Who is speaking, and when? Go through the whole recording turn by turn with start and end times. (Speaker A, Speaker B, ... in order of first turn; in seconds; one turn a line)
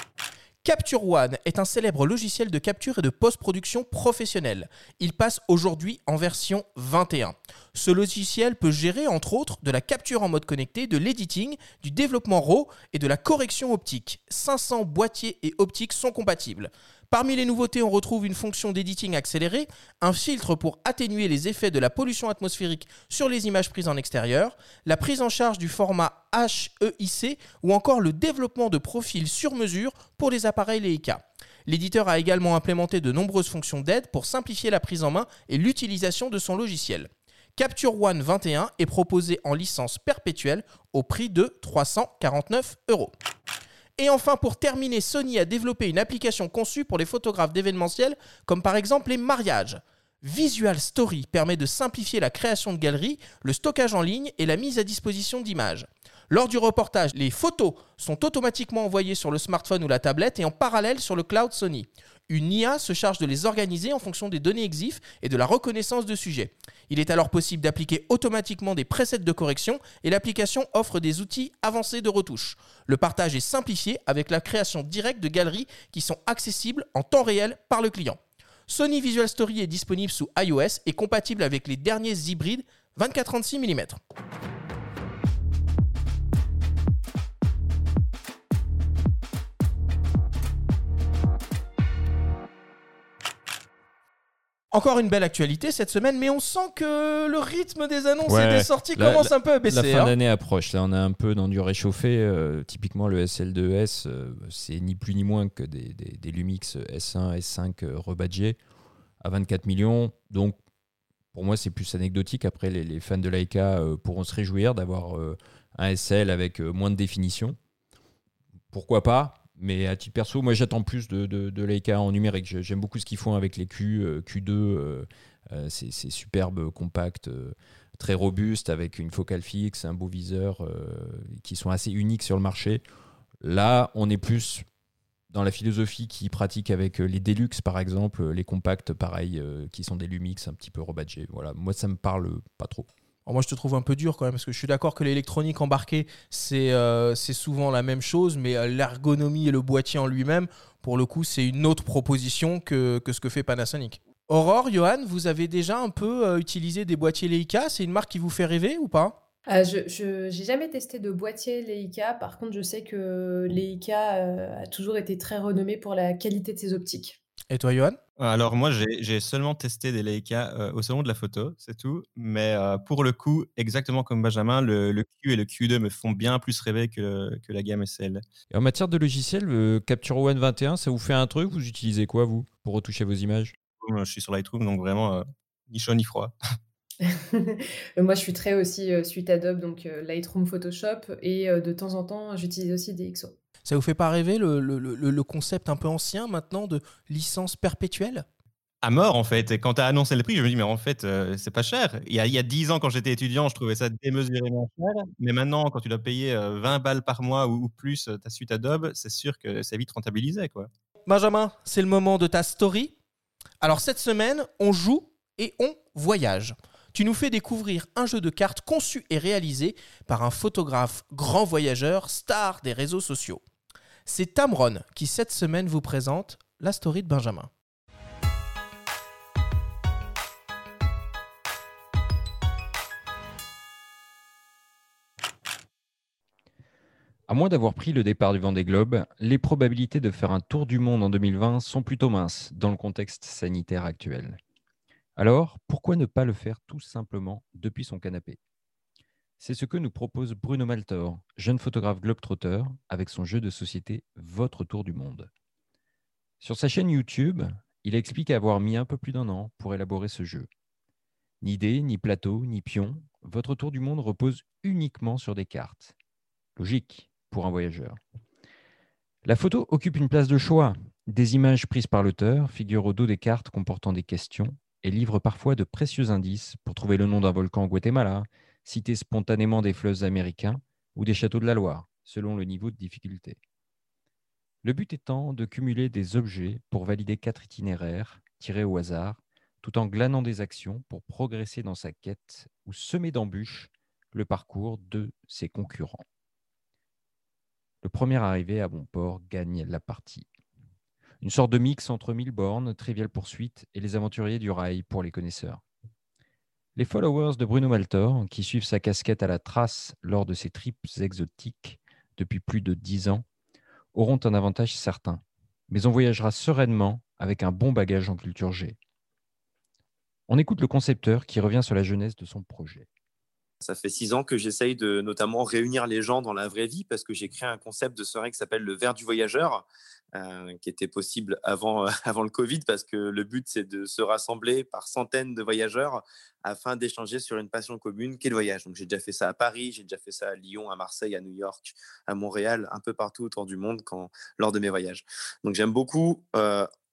Speaker A: 0.6-43.1
Speaker A: 44.0-84.0
Speaker A: 94.7-100.1
Speaker B: 98.3-108.6
Speaker B: 109.2-110.6
Speaker B: 111.3-117.6
Speaker B: 118.7-132.8
Speaker B: 133.4-134.7
Speaker B: 135.3-142.9
Speaker A: 143.3-159.2
Speaker C: 159.5-167.2
Speaker A: 167.5-168.0
Speaker D: 168.2-178.2
Speaker B: 178.5-183.5
Speaker D: 183.8-186.3
Speaker C: 187.0-193.3
Speaker A: 193.7-198.3
Speaker D: 198.8-210.7
Speaker A: 211.1-212.9
Speaker A: 213.6-223.4
Speaker A: 224.1-227.5
Speaker B: 237.3-244.4
Speaker B: 245.2-248.4
Speaker B: 249.4-255.3
Speaker B: 256.4-260.5
Speaker B: 261.4-265.9
Speaker B: 266.6-268.0
Speaker B: 269.2-283.4
Speaker B: 284.6-296.0
Speaker B: 297.8-300.3
Speaker B: 301.2-305.6
Speaker B: 306.8-313.2
Speaker B: 313.9-318.8
Speaker B: 320.3-322.9
Speaker E: 323.6-346.7